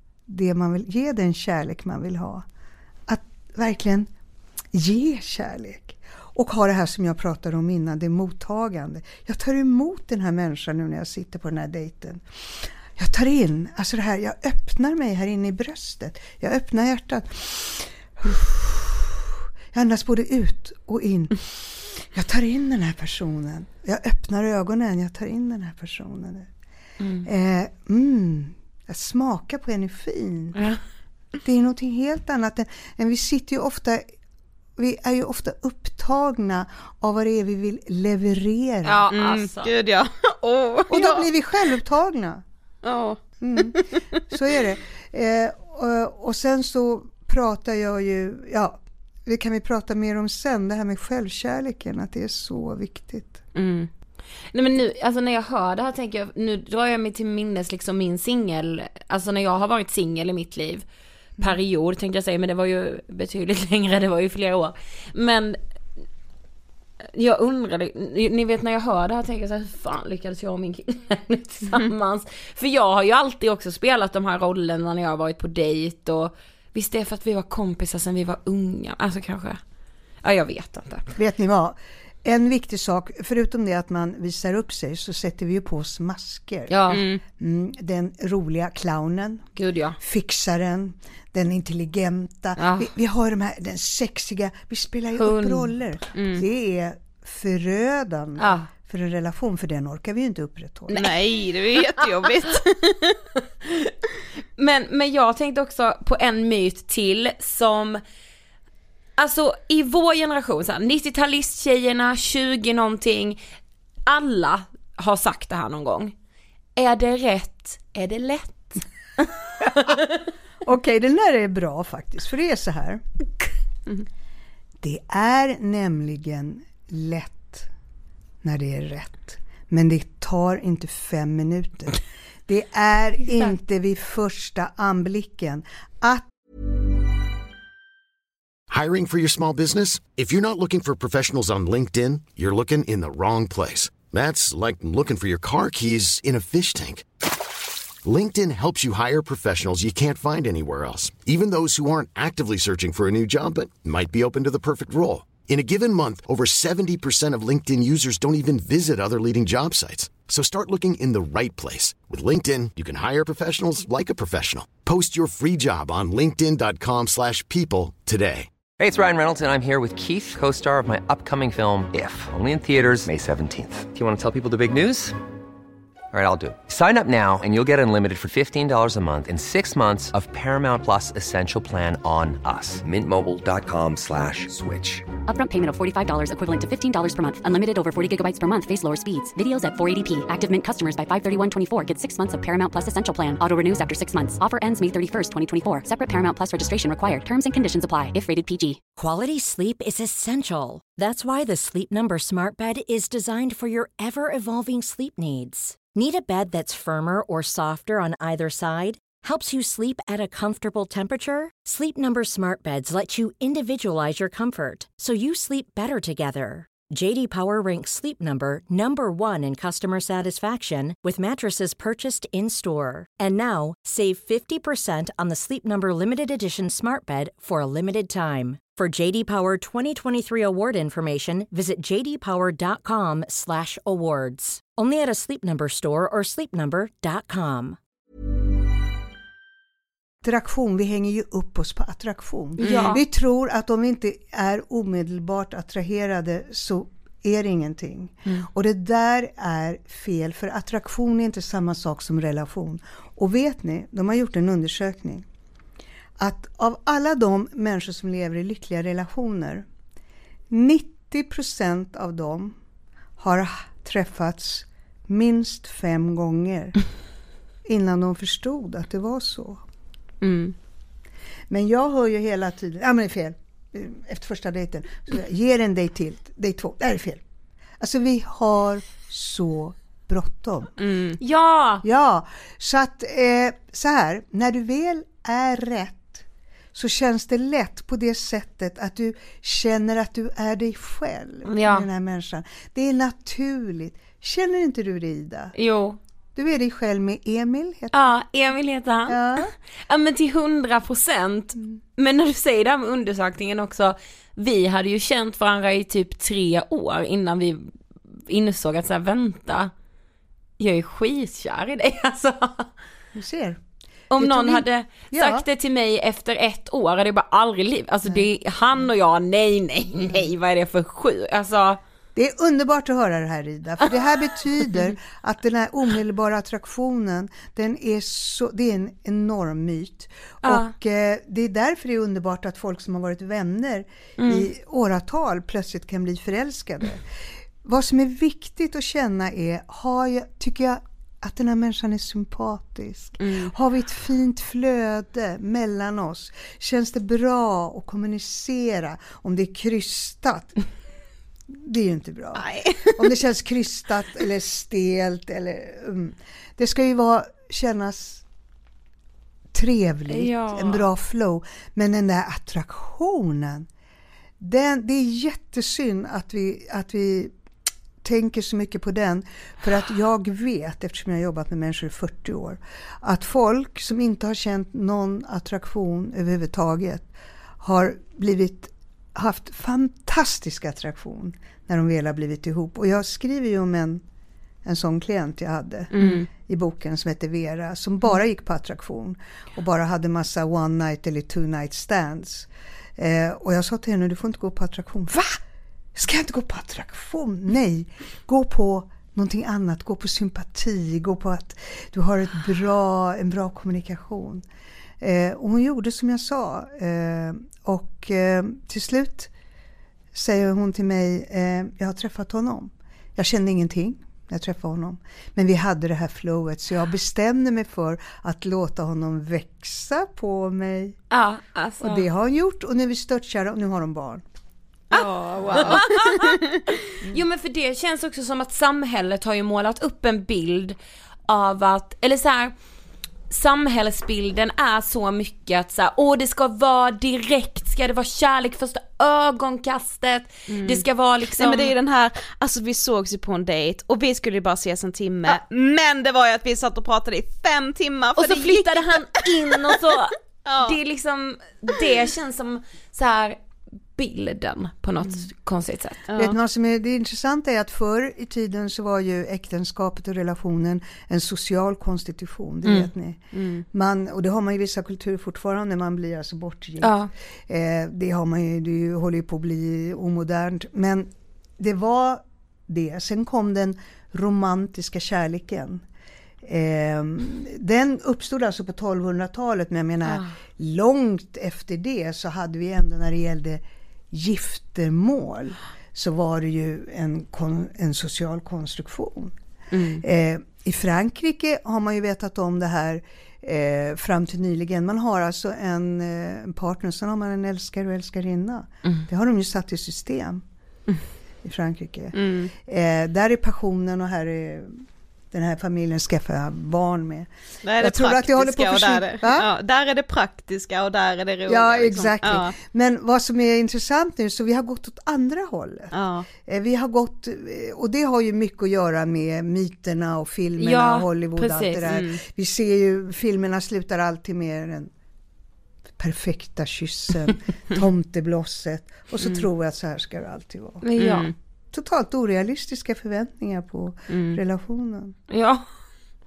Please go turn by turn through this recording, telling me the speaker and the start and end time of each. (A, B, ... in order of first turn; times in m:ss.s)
0:00.3-0:02.5 A
0:03.1-0:04.1 A
0:04.7-0:26.5 A
0:27.0-0:27.3 B
0:27.2-0:30.7 A
0:31.4-0:34.1 A
0:34.8-0:39.0 A
0:38.8-0:39.7 B
0:39.1-0:41.3 C
0:40.9-0:42.4 A
0:42.8-0:44.0 C
0:43.4-0:53.4 A
0:53.6-0:53.9 C
0:54.5-1:00.9 B
1:01.4-1:05.6 B
1:07.1-1:19.6 B
1:20.2-1:21.1 B
1:21.2-1:26.7 A
1:26.7-1:27.0 B
1:26.9-1:27.2 C
1:27.4-1:29.5 A
1:29.6-1:30.0 B
1:30.0-1:41.1 A
1:32.6-1:32.9 B
1:35.2-1:35.7 B
1:36.2-1:36.4 C
1:38.4-1:38.7 B
1:40.9-1:41.2 B
1:41.0-1:43.2 C
1:44.6-1:48.0 B
1:49.2-1:53.4 B
1:54.1-1:56.1 B
1:56.8-1:58.8 B
1:59.8-2:00.2 B
2:00.6-2:03.0 A
2:04.8-2:07.7 A
2:08.4-2:16.3 A
2:18.7-2:27.0 D
2:28.0-2:48.5 D
2:48.8-2:55.2 E
2:56.1-3:05.1 E
3:05.2-3:18.8 F
3:19.0-3:57.8 G
4:00.2-4:15.3 A
4:02.6-4:03.0 B
4:16.2-4:19.7 A
4:20.5-4:22.6 A
4:23.2-4:26.8 A
4:27.6-4:29.6 A
4:30.2-4:30.6 C
4:31.5-4:37.2 A
4:37.8-4:40.7 A
4:40.8-4:41.2 C
4:41.2-4:41.8 B
4:41.8-4:55.6 A
4:51.5-4:51.9 B
4:55.6-4:56.0 B
4:56.4-4:58.1 A
4:57.9-5:07.7 B
4:59.1-4:59.5 A
5:08.3-5:09.7 B
5:10.6-5:12.7 B
5:13.2-5:13.6 A
5:14.1-5:21.8 B
5:14.1-5:15.5 A
5:22.2-5:37.0 A
5:30.4-5:30.7 B
5:34.2-5:34.5 B
5:37.6-5:50.6 A
5:43.2-5:43.5 C
5:51.5-5:58.2 A
5:52.4-5:52.9 C
5:59.5-6:03.7 A
6:00.1-6:00.8 B
6:04.4-6:07.3 A
6:08.0-6:24.0 A
6:24.6-6:35.4 A
6:25.9-6:26.3 C
6:36.0-6:44.4 A
6:45.0-6:49.3 A
6:50.1-7:01.0 A
7:01.1-7:02.1 B
7:01.8-7:04.2 A
7:04.9-7:06.4 B
7:04.9-7:06.3 C
7:05.5-7:05.8 A
7:07.0-7:12.6 B
7:13.3-7:21.7 B
7:20.5-7:29.8 C
7:28.2-7:33.4 B
7:30.5-7:30.8 C
7:34.0-7:36.1 B
7:36.1-7:36.4 C
7:36.2-7:43.2 A
7:43.3-7:43.6 C
7:43.7-7:55.8 A
7:46.8-7:47.1 B
7:56.4-8:09.4 A
8:00.1-8:00.3 B
8:09.7-8:10.0 C
8:10.0-8:20.4 A
8:21.4-8:29.5 A
8:22.2-8:22.5 C
8:27.6-8:32.5 C
8:31.5-8:35.9 A
8:35.9-8:36.3 C
8:36.4-8:44.9 A
8:40.6-8:41.9 B
8:41.8-8:42.2 C
8:46.0-8:50.8 A
8:50.8-8:51.3 B
8:51.0-8:51.3 C
8:51.7-8:55.2 A
8:54.1-8:54.4 C
8:55.3-8:55.7 B